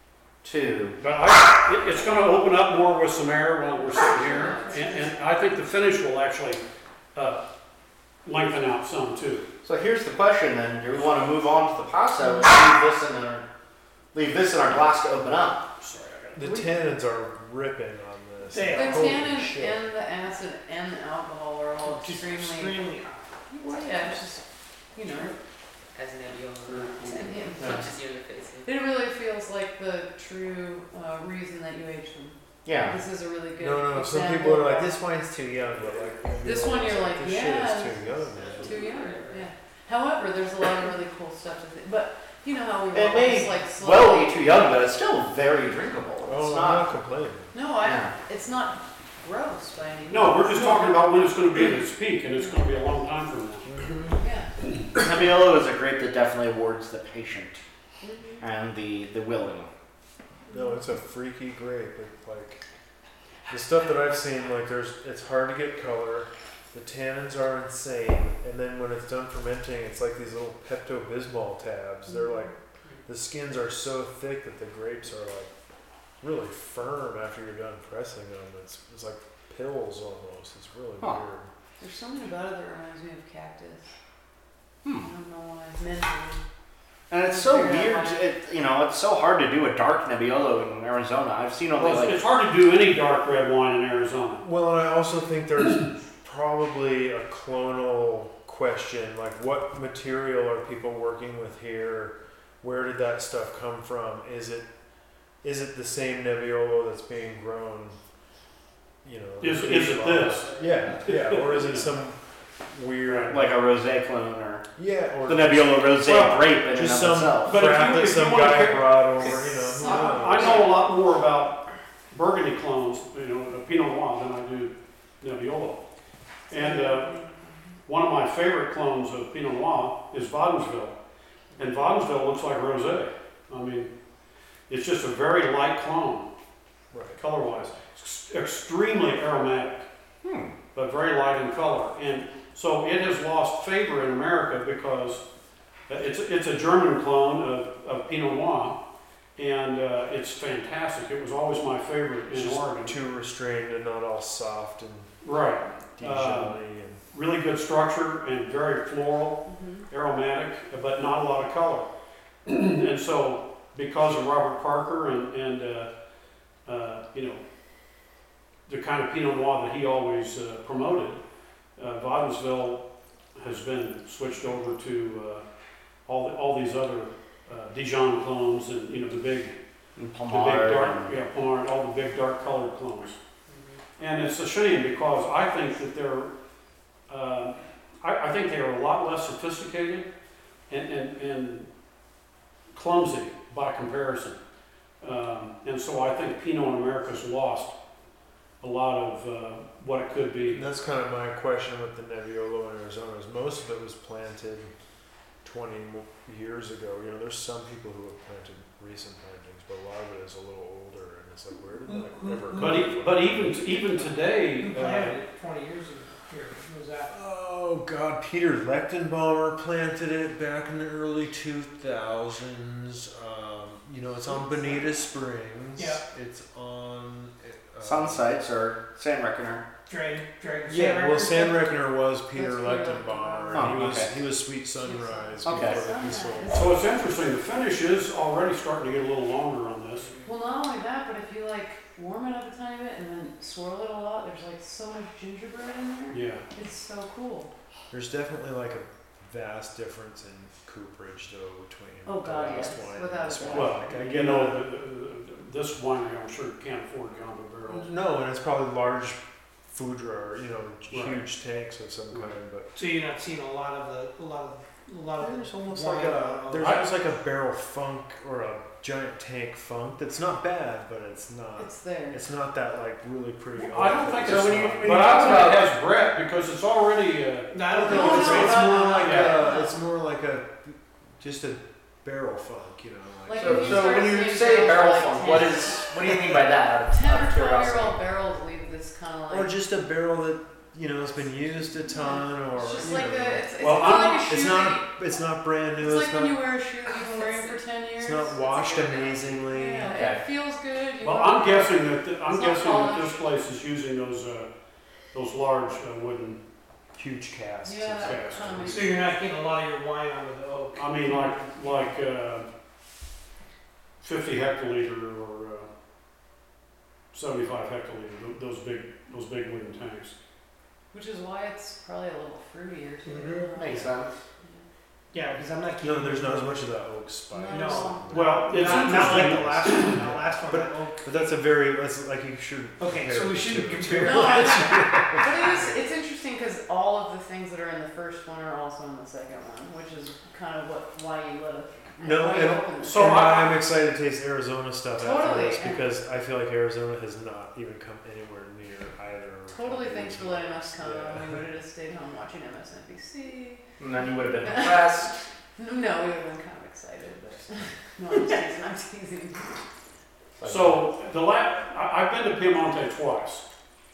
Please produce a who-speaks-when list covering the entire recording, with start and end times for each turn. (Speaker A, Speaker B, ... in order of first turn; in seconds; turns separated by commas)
Speaker A: 0.4-1.0, Speaker B: 1.0-6.6, Speaker C: 3.9-5.1, Speaker B: 7.1-7.4, Speaker B: 8.2-9.5, Speaker A: 9.6-13.4, Speaker A: 14.1-15.6, Speaker B: 15.8-16.7, Speaker D: 16.3-19.8, Speaker E: 18.5-19.3, Speaker F: 18.7-22.9, Speaker E: 21.8-23.4, Speaker F: 23.5-24.4, Speaker F: 24.9-25.3, Speaker C: 25.9-28.7, Speaker B: 26.7-27.4, Speaker F: 27.1-27.9, Speaker F: 28.6-35.0, Speaker A: 32.6-33.0, Speaker D: 33.6-38.9, Speaker F: 36.4-38.0, Speaker C: 38.2-39.5, Speaker F: 38.6-44.3, Speaker A: 42.9-46.9, Speaker D: 46.2-47.5, Speaker F: 47.5-51.1, Speaker A: 47.8-48.1, Speaker B: 50.1-53.6, Speaker D: 53.6-54.2, Speaker F: 54.2-54.5, Speaker A: 54.9-57.6, Speaker F: 58.0-58.4, Speaker A: 58.4-59.7, Speaker F: 60.5-60.8, Speaker D: 60.5-62.6, Speaker D: 63.5-72.5, Speaker F: 72.1-72.5, Speaker D: 73.0-75.5, Speaker D: 76.2-81.5, Speaker F: 81.8-83.9, Speaker A: 84.8-85.1, Speaker F: 85.0-86.4, Speaker A: 87.1-92.2, Speaker F: 87.2-88.2, Speaker B: 91.8-94.4, Speaker D: 94.4-104.7, Speaker D: 105.4-108.0, Speaker D: 109.0-113.5, Speaker B: 109.4-111.9, Speaker B: 113.0-113.3, Speaker A: 113.3-114.7, Speaker D: 114.8-115.8, Speaker A: 115.2-117.6, Speaker B: 116.0-116.5, Speaker D: 116.7-120.7, Speaker B: 117.4-125.8, Speaker F: 119.5-120.7, Speaker B: 126.5-127.1, Speaker F: 126.5-127.7, Speaker B: 127.9-130.9, Speaker B: 131.6-133.9, Speaker B: 134.7-136.2, Speaker D: 136.9-137.2, Speaker B: 137.2-139.9, Speaker A: 140.2-140.5, Speaker B: 140.7-145.2, Speaker B: 145.9-148.8, Speaker B: 149.3-152.9, Speaker D: 152.3-155.1, Speaker B: 155.2-156.6, Speaker D: 156.0-157.0, Speaker B: 157.1-161.9, Speaker F: 159.4-159.8, Speaker B: 162.4-165.9, Speaker B: 166.7-167.4, Speaker B: 168.7-171.2, Speaker B: 171.8-172.8, Speaker B: 173.3-175.4, Speaker B: 176.1-179.5, Speaker A: 180.0-181.1, Speaker B: 180.3-183.2, Speaker C: 183.5-183.8, Speaker B: 184.0-186.3, Speaker B: 187.1-190.1, Speaker B: 190.7-191.7, Speaker B: 192.7-194.4, Speaker B: 195.0-197.7, Speaker B: 198.6-200.6, Speaker D: 200.5-204.7, Speaker D: 205.4-213.8, Speaker E: 211.9-212.9, Speaker B: 212.5-215.2, Speaker E: 214.6-217.1, Speaker D: 217.1-228.3, Speaker F: 224.3-224.8, Speaker E: 225.8-226.0, Speaker A: 227.8-229.6, Speaker E: 229.9-231.6, Speaker D: 230.7-236.6, Speaker F: 232.3-234.0, Speaker A: 233.5-234.1, Speaker F: 234.8-236.9, Speaker A: 235.4-235.8, Speaker B: 236.5-240.1, Speaker C: 240.0-240.3, Speaker F: 240.2-247.5, Speaker B: 246.1-246.4, Speaker D: 247.9-254.6, Speaker F: 252.0-253.9, Speaker B: 253.5-257.9, Speaker D: 257.7-262.7, Speaker B: 260.9-261.2, Speaker E: 262.7-266.8, Speaker D: 265.2-275.5, Speaker F: 271.6-272.2, Speaker B: 273.6-279.4, Speaker A: 274.2-275.7, Speaker E: 277.5-278.8, Speaker D: 277.7-284.1, Speaker F: 277.8-279.8, Speaker F: 283.2-286.1, Speaker A: 283.4-288.0, Speaker F: 286.9-289.5, Speaker D: 289.3-296.4, Speaker F: 291.8-294.9, Speaker B: 293.6-294.4, Speaker F: 295.8-303.3, Speaker C: 297.0-297.6, Speaker D: 298.0-300.0, Speaker C: 298.4-299.2, Speaker A: 299.9-300.2, Speaker B: 301.0-304.5, Speaker B: 305.1-306.4, Speaker D: 306.9-308.9, Speaker F: 307.6-309.2, Speaker B: 308.0-308.7, Speaker E: 308.7-311.6, Speaker B: 310.7-312.5, Speaker B: 314.0-315.7, Speaker B: 317.1-320.1, Speaker F: 320.9-323.9, Speaker E: 323.0-323.6, Speaker A: 323.6-324.2, Speaker E: 325.1-326.7, Speaker D: 325.8-335.6, Speaker F: 327.3-328.4, Speaker E: 327.5-331.1, Speaker B: 328.1-330.1, Speaker E: 332.8-334.7, Speaker F: 334.0-343.2, Speaker D: 342.0-351.4, Speaker B: 342.8-343.6, Speaker F: 345.0-345.9, Speaker F: 349.5-353.6, Speaker A: 353.8-355.2, Speaker F: 354.4-354.9, Speaker F: 355.6-359.6, Speaker A: 360.4-360.8, Speaker B: 360.4-363.4